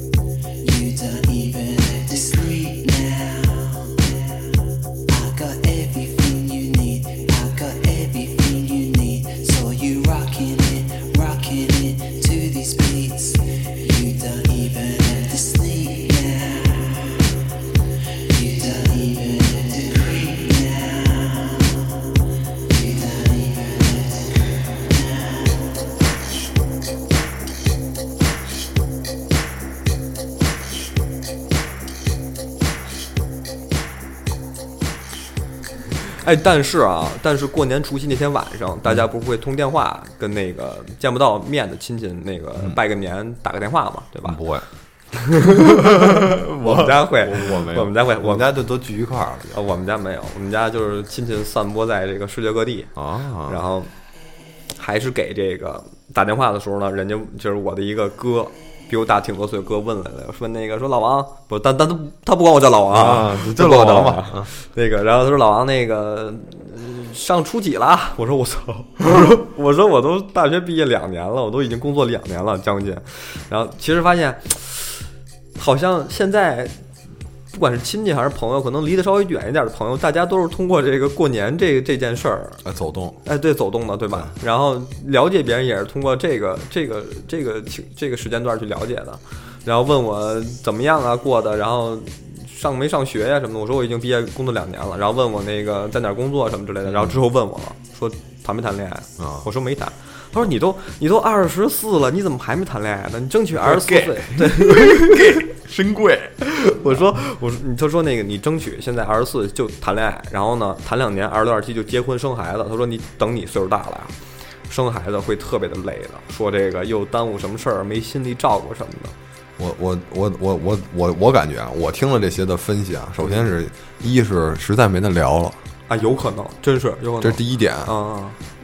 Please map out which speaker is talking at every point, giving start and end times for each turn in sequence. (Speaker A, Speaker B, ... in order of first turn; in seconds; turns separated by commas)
Speaker A: 0.6-17.4, Speaker A: 18.1-25.9, Speaker B: 36.0-44.4, Speaker C: 44.2-44.7, Speaker B: 45.1-48.5, Speaker C: 45.5-49.6, Speaker B: 49.5-52.9, Speaker C: 53.0-53.6, Speaker B: 53.5-53.9, Speaker B: 54.8-76.8, Speaker C: 62.9-64.5, Speaker B: 77.5-82.6, Speaker C: 82.6-83.2, Speaker B: 83.2-105.4, Speaker C: 96.9-97.2, Speaker C: 99.2-99.5, Speaker C: 103.6-107.1, Speaker B: 106.7-114.2, Speaker B: 114.7-119.1, Speaker C: 119.6-125.6, Speaker B: 125.9-128.4, Speaker C: 127.2-127.9